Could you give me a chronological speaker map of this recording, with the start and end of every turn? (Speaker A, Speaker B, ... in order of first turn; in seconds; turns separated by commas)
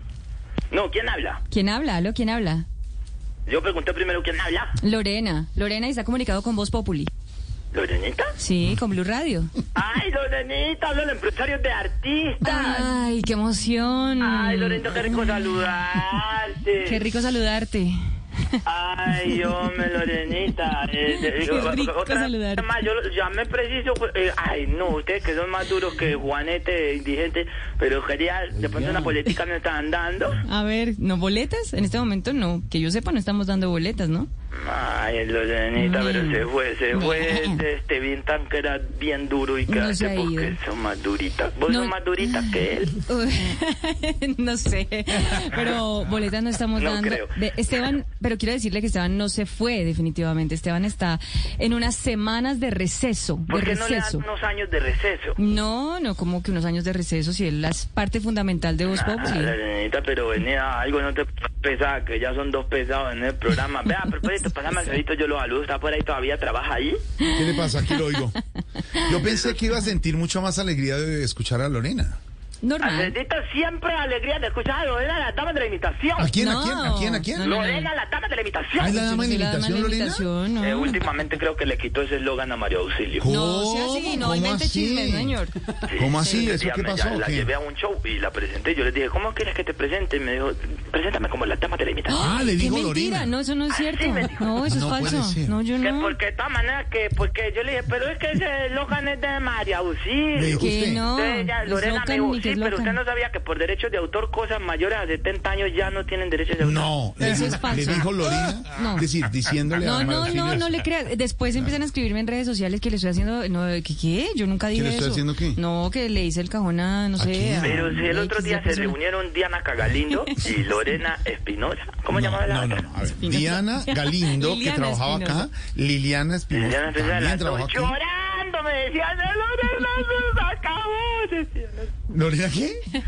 Speaker A: 0.7-1.4, Speaker B: 1.5-2.6, Speaker A: 3.5-4.7, Speaker B: 4.8-7.1, Speaker A: 7.7-8.3, Speaker B: 8.4-9.5, Speaker A: 9.7-12.9, Speaker B: 12.4-15.3, Speaker A: 14.2-17.0, Speaker B: 16.8-18.0, Speaker A: 18.6-30.4, Speaker B: 21.0-22.7, Speaker B: 30.4-34.3, Speaker A: 34.5-43.0, Speaker B: 35.8-37.6, Speaker B: 39.7-40.5, Speaker B: 41.7-54.2, Speaker A: 46.8-47.3, Speaker A: 53.5-55.4, Speaker B: 55.4-59.5, Speaker A: 58.9-67.0, Speaker B: 67.2-67.6, Speaker C: 67.3-68.3, Speaker C: 69.0-72.2, Speaker A: 69.1-69.6, Speaker B: 72.6-73.1, Speaker A: 72.8-76.3, Speaker C: 76.2-77.5, Speaker B: 76.3-77.9, Speaker A: 77.4-78.9, Speaker C: 78.8-80.2, Speaker B: 78.8-81.0, Speaker A: 80.6-83.3, Speaker C: 83.2-85.4, Speaker B: 83.2-85.5, Speaker A: 85.8-92.3, Speaker C: 85.9-87.5, Speaker B: 86.2-86.5, Speaker B: 92.1-96.2, Speaker C: 92.2-93.3, Speaker A: 93.8-94.5, Speaker C: 94.6-95.6, Speaker A: 95.8-106.9, Speaker C: 100.3-101.1, Speaker B: 100.6-103.0, Speaker C: 106.6-110.8, Speaker B: 107.2-109.1, Speaker B: 109.8-119.0, Speaker C: 114.7-115.6, Speaker C: 117.2-118.1, Speaker A: 117.6-122.9, Speaker C: 122.1-128.0, Speaker B: 123.1-125.5, Speaker A: 126.5-131.9, Speaker C: 132.1-132.8